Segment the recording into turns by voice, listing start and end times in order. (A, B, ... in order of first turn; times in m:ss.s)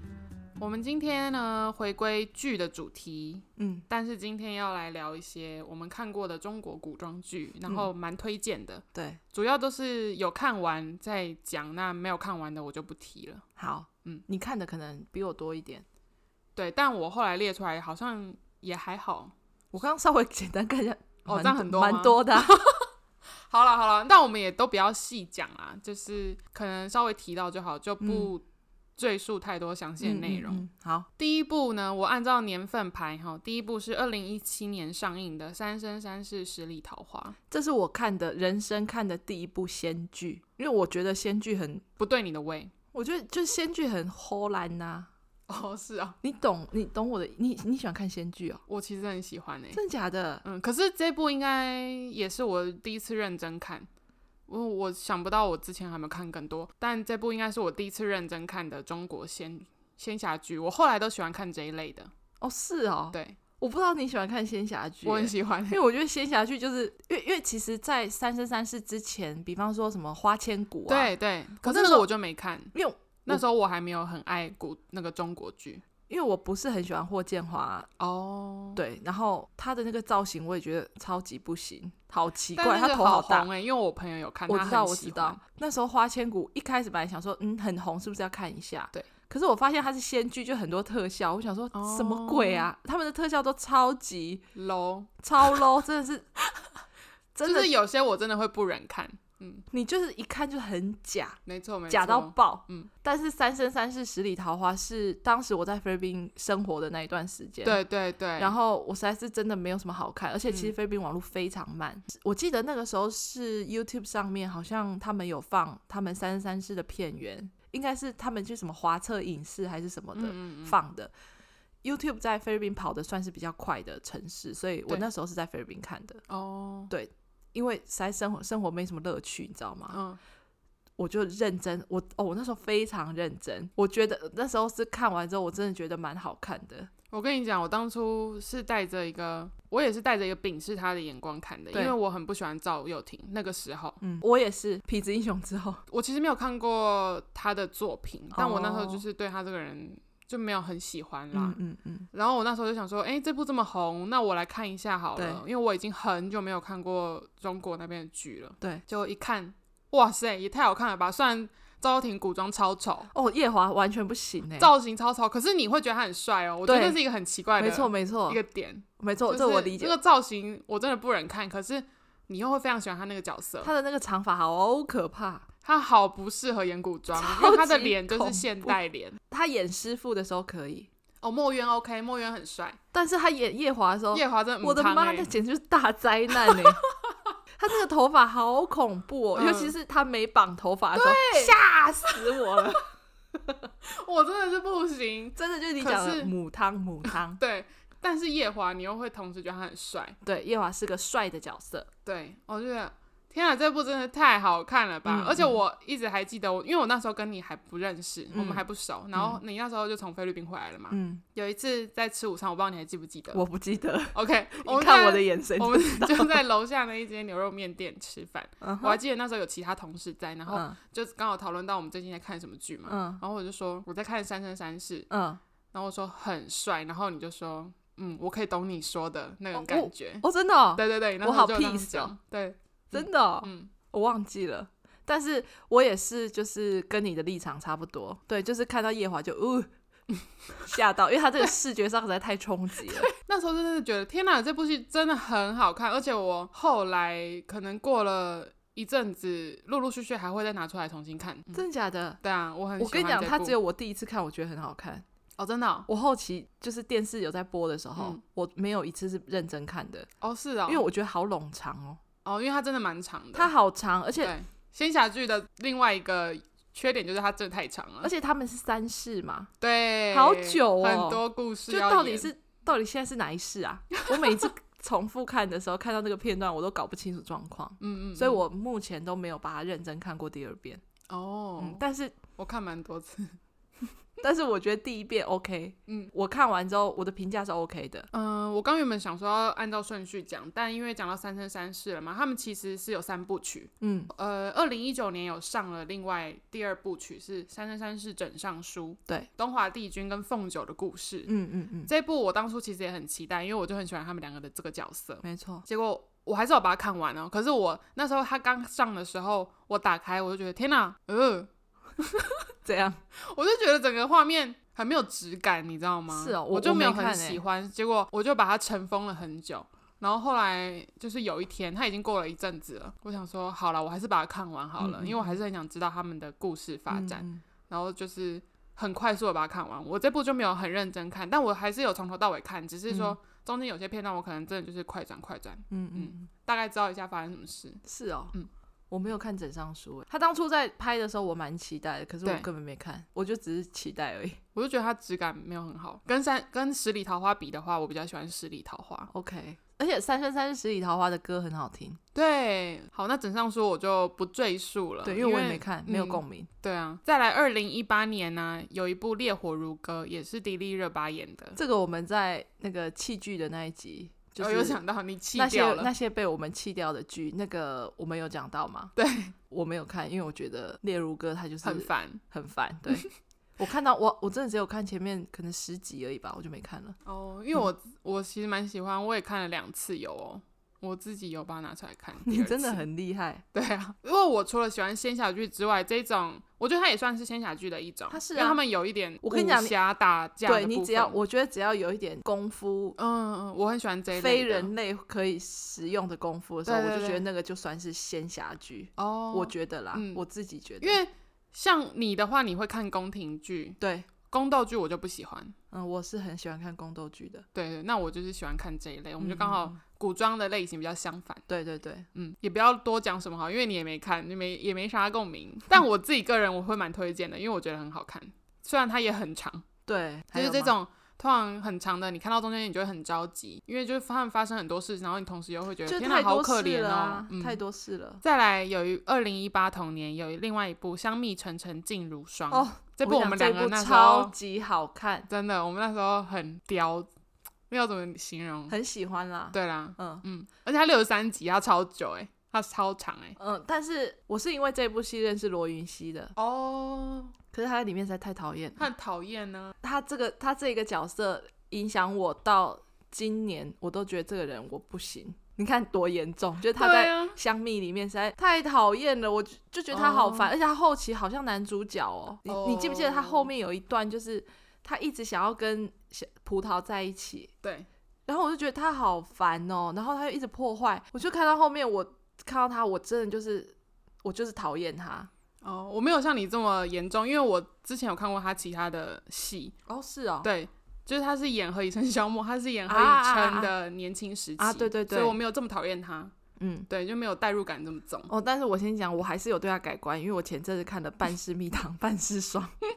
0:00.6-0:13.4 A
0:03.6-0:03.8 B
0:09.0-0:09.2 B
0:13.6-0:15.8 B
0:16.6-0:19.3 A
0:19.7-0:22.5 B
0:21.2-0:22.9 A
0:23.5-0:28.4 A
0:28.0-0:28.3 B
0:29.0-0:30.6 A
0:30.0-0:31.1 B
0:31.2-0:37.4 A
0:37.5-0:41.8 B
0:42.0-0:42.7 A
0:42.9-0:45.1 B
0:45.5-0:46.2 A
0:46.2-0:48.6 B
0:48.7-0:49.8 A
0:49.7-0:50.4 B
0:50.4-0:53.9 A
0:54.5-1:02.1 A
1:02.4-1:12.1 B
1:03.1-1:03.4 A
1:05.0-1:05.8 A
1:10.9-1:12.7 A
1:12.7-1:13.4 B
1:13.3-1:15.8 A
1:16.1-1:17.9 B
1:18.0-1:18.8 A
1:18.8-1:23.5 B
1:22.6-1:25.4 A
1:24.5-1:34.4 B
1:31.7-1:32.7 A
1:34.6-1:35.6 A
1:35.2-1:36.3 B
1:37.3-1:37.7 B
1:37.4-1:39.6 A
1:39.7-1:41.4 B
1:41.4-1:42.9 A
1:41.9-1:47.8 B
1:47.6-1:48.5 A
1:48.4-2:01.1 B
2:00.2-2:00.8 A
2:01.8-2:06.2 B
2:06.3-2:06.9 A
2:06.9-2:10.0 B
2:09.9-2:10.2 A
2:11.0-2:16.9 B
2:17.1-2:24.0 A
2:24.0-2:25.8 B
2:25.9-2:31.6 A
2:28.3-2:29.0 B
2:31.3-2:32.1 B
2:32.1-2:43.1 A
2:35.2-2:35.4 B
2:43.1-2:44.7 B
2:44.6-2:53.7 A
2:46.6-2:47.0 B
2:47.6-2:48.4 B
2:49.0-2:50.0 B
2:53.6-2:55.4 B
2:55.6-2:59.2 A
2:57.1-2:58.8 B
2:59.3-3:00.9 B
3:01.2-3:02.8 A
3:02.9-3:06.8 B
3:04.1-3:05.3 A
3:06.3-3:07.2 A
3:07.6-3:13.7 B
3:09.3-3:09.7 A
3:10.9-3:12.7 A
3:13.8-3:16.3 A
3:15.4-3:17.4 B
3:17.4-3:20.2 A
3:20.2-3:21.9 B
3:22.0-3:33.4 A
3:25.0-3:25.6 B
3:28.3-3:29.4 B
3:30.9-3:31.2 B
3:33.3-3:36.4 B
3:34.1-3:45.1 A
3:38.6-3:39.0 B
3:40.5-3:40.8 B
3:42.9-3:43.2 B
3:45.1-3:45.4 B
3:45.7-3:53.7 A
3:49.5-3:52.1 B
3:52.9-3:59.7 B
4:00.6-4:03.1 B
4:02.8-4:11.6 A
4:11.5-4:12.2 B
4:12.2-4:13.6 A
4:12.8-4:15.0 B
4:15.4-4:15.9 A
4:15.9-4:20.1 B
4:20.2-4:20.8 A
4:20.7-4:22.0 B
4:22.2-4:23.5 A
4:23.3-4:24.3 B
4:24.2-4:28.1 A
4:28.0-4:29.5 B
4:29.6-4:32.3 A
4:30.1-4:40.8 B
4:37.8-4:38.4 A
4:41.1-4:41.8 A
4:41.6-4:42.2 B
4:42.4-4:43.4 A
4:44.2-4:48.1 B
4:48.1-5:01.3 A
4:53.8-4:54.1 B
5:01.3-5:01.9 B
5:01.8-5:12.4 A
5:05.2-5:05.6 B
5:12.6-5:13.0 B
5:13.2-5:38.5 A
5:16.1-5:17.4 B
5:24.8-5:25.4 B
5:26.9-5:27.4 B
5:32.9-5:33.2 B
5:35.7-5:36.3 B
5:37.8-5:38.3 B
5:38.9-5:44.4 B
5:44.6-5:49.1 A
5:49.1-5:52.0 B
5:52.1-6:01.6 A
5:55.0-5:56.5 B
6:01.6-6:04.8 B
6:04.4-6:05.9 A
6:05.3-6:08.9 B
6:09.0-6:09.3 A
6:09.5-6:13.1 B
6:11.6-6:12.2 A
6:13.6-6:17.0 B
6:17.1-6:22.8 A
6:22.2-6:23.4 B
6:23.5-6:31.2 A
6:28.1-6:28.6 B
6:29.2-6:29.8 B
6:30.4-6:33.0 B
6:33.0-6:34.7 A
6:34.1-6:41.0 B
6:36.6-6:37.2 A
6:39.0-6:40.2 A
6:40.8-6:45.6 A
6:43.8-6:44.1 B
6:45.7-6:47.4 B
6:47.5-6:51.4 A
6:49.2-6:49.8 B
6:51.5-6:52.1 B
6:52.1-6:59.6 A
6:59.9-7:00.7 B
7:00.3-7:07.6 A
7:05.8-7:08.2 B
7:08.2-7:14.3 A
7:12.5-7:15.3 B
7:15.3-7:17.1 A
7:17.7-7:18.8 A
7:18.7-7:20.2 B
7:19.5-7:23.4 A
7:23.4-7:26.3 B
7:26.4-7:27.3 A
7:27.5-7:28.9 B
7:28.8-7:29.8 A
7:29.8-7:47.5 B
7:36.8-7:37.4 A
7:39.9-7:40.5 A
7:42.4-7:43.5 A
7:48.2-7:55.3 B
7:55.6-7:59.8 A
7:59.9-8:00.5 B
8:00.4-8:06.3 A
8:02.9-8:03.7 B
8:04.6-8:05.4 B
8:06.6-8:06.9 B
8:06.9-8:08.3 A
8:08.3-8:12.7 B